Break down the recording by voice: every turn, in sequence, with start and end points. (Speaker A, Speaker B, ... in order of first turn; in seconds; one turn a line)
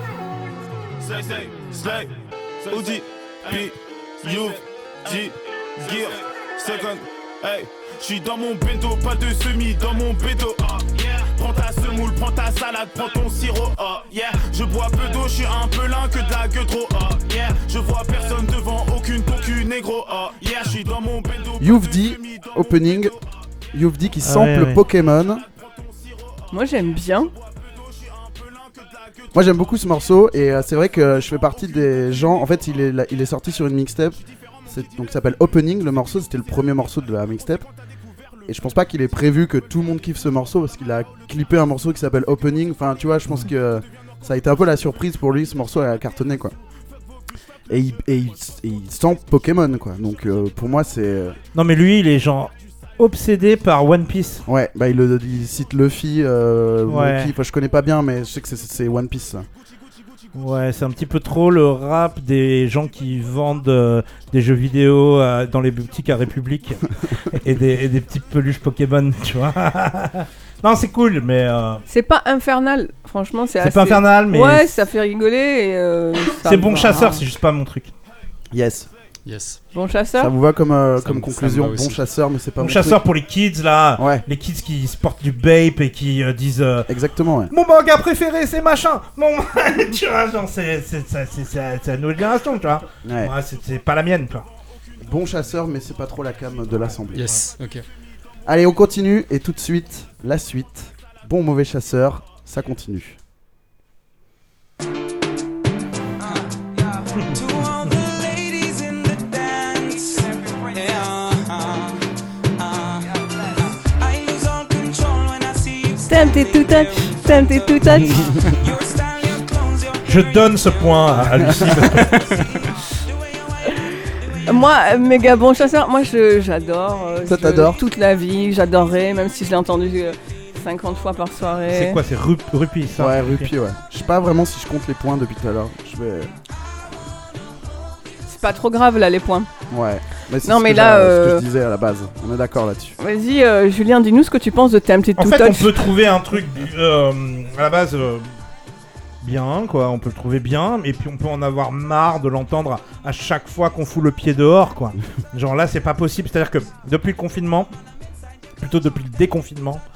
Speaker A: 1.0-23.3
Speaker B: 21.6-23.1
Speaker B: 23.7-25.4
Speaker C: 24.2-24.8
Speaker A: 25.4-29.6
Speaker D: 26.5-27.3
Speaker B: 29.3-37.7
Speaker A: 32.1-32.7
Speaker A: 34.5-35.0
Speaker A: 38.0-38.5
Speaker B: 38.5-46.5
Speaker B: 47.7-51.4
Speaker C: 51.5-54.4
Speaker B: 54.5-59.5
Speaker C: 56.9-57.3
Speaker C: 60.3-71.8
Speaker D: 71.9-77.2
Speaker C: 73.6-74.7
Speaker C: 76.4-77.9
Speaker B: 78.5-78.9
Speaker E: 79.2-79.6
Speaker D: 79.7-80.3
Speaker B: 80.2-83.0
Speaker E: 81.0-82.0
Speaker C: 82.6-86.9
Speaker B: 84.0-84.2
Speaker B: 86.9-87.5
Speaker C: 87.5-94.5
Speaker B: 93.0-93.3
Speaker B: 95.0-97.3
Speaker C: 96.8-97.4
Speaker E: 97.1-97.8
Speaker B: 98.4-103.2
Speaker F: 106.2-124.5
Speaker D: 116.1-118.3
Speaker C: 120.0-122.5
Speaker B: 121.3-121.8
Speaker D: 124.4-132.0
Speaker B: 127.2-127.8
Speaker C: 131.7-133.5
Speaker B: 132.9-136.3
Speaker D: 138.3-139.5
Speaker B: 139.7-142.9
Speaker D: 140.4-141.4
Speaker D: 143.0-145.9
Speaker C: 145.2-148.3
Speaker C: 149.2-157.7
Speaker C: 158.6-159.8